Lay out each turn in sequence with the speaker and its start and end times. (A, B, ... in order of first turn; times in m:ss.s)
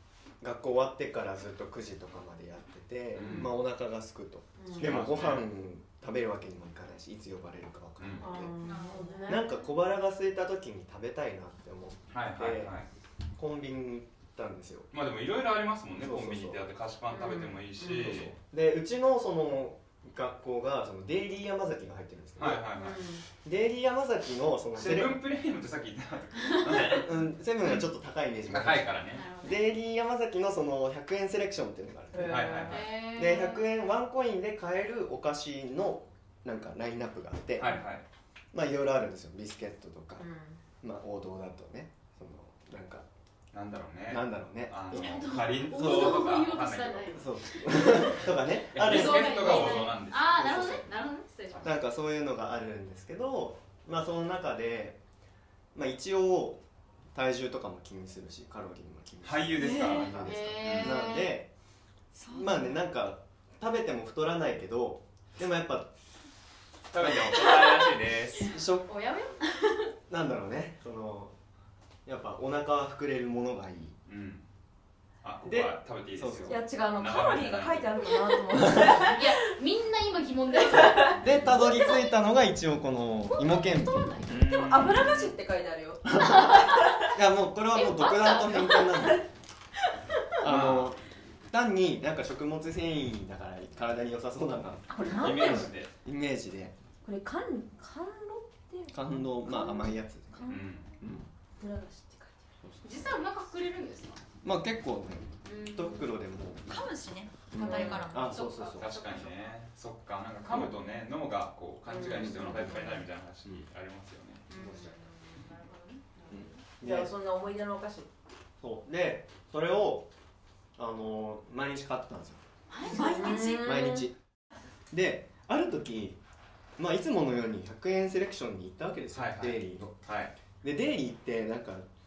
0:00.4-0:08.5 A
0:03.1-0:03.6 B
0:04.6-0:04.9 C
0:04.8-0:05.5 B
0:08.0-0:08.3 B
0:08.2-0:09.6 C
0:08.6-0:09.5 D
0:09.3-0:12.8 A
0:12.1-0:12.9 B
0:13.4-0:14.9 A
0:14.9-0:18.3 B
0:16.0-0:16.6 A
0:17.1-0:17.6 D
0:17.9-0:22.7 A
0:22.4-0:23.0 B
0:22.8-0:23.2 C
0:23.4-0:25.2 A
0:24.7-0:27.1 B
0:26.5-0:27.0 D
0:26.7-0:37.7 A
0:28.5-0:29.3 B
0:29.1-0:29.6 D
0:32.1-0:32.8 C
0:32.2-0:32.9 B
0:32.7-0:33.6 D
0:37.6-0:38.0 B
0:38.5-0:40.2 A
0:40.2-0:40.6 C
0:40.8-0:43.0 A
0:43.5-0:47.2 B
0:44.1-0:46.3 A
0:44.9-0:48.1 D
0:47.1-0:49.7 A
0:48.7-0:50.5 B
0:48.8-0:51.8 D
0:50.3-0:50.9 A
0:51.6-0:55.0 A
0:55.7-0:56.6 A
0:57.1-1:01.5 A
0:59.2-1:01.1 B
0:59.6-1:00.0 E
1:00.1-1:01.4 D
1:02.1-1:02.8 E
1:02.3-1:05.9 A
1:06.9-1:08.6 B
1:07.0-1:07.4 A
1:08.5-1:08.9 A
1:08.8-1:09.8 D
1:10.1-1:11.3 A
1:12.0-1:14.0 A
1:14.1-1:14.4 B
1:15.2-1:17.9 B
1:15.4-1:16.6 A
1:16.5-1:19.3 C
1:18.9-1:22.0 D
1:20.7-1:21.2 C
1:21.2-1:24.1 A
1:23.2-1:24.5 D
1:24.3-1:25.3 B
1:24.4-1:26.8 C
1:26.1-1:29.2 A
1:27.7-1:29.0 D
1:30.4-1:36.7 A
1:30.4-1:30.9 B
1:34.9-1:35.7 C
1:35.1-1:35.9 B
1:37.0-1:40.6 C
1:38.9-1:41.2 A
1:40.4-1:41.1 B
1:41.6-1:42.5 C
1:42.8-1:44.2 D
1:44.4-1:46.8 A
1:45.4-1:46.1 D
1:46.7-1:48.3 E
1:47.5-1:48.9 A
1:47.6-1:48.2 C
1:47.7-1:49.4 D
1:48.6-1:54.5 B
1:50.4-1:50.7 A
1:51.9-1:52.4 C
1:52.1-1:52.8 A
1:54.5-1:56.6 D
1:54.6-1:54.9 A
1:56.3-1:57.1 A
1:56.8-1:58.1 C
1:58.6-2:00.1 A
2:00.8-2:02.4 A
2:02.7-2:03.2 D
2:02.9-2:03.8 E
2:02.9-2:04.1 C
2:03.4-2:04.2 A
2:04.9-2:06.2 A
2:06.8-2:10.0 A
2:09.1-2:10.3 B
2:10.6-2:11.9 A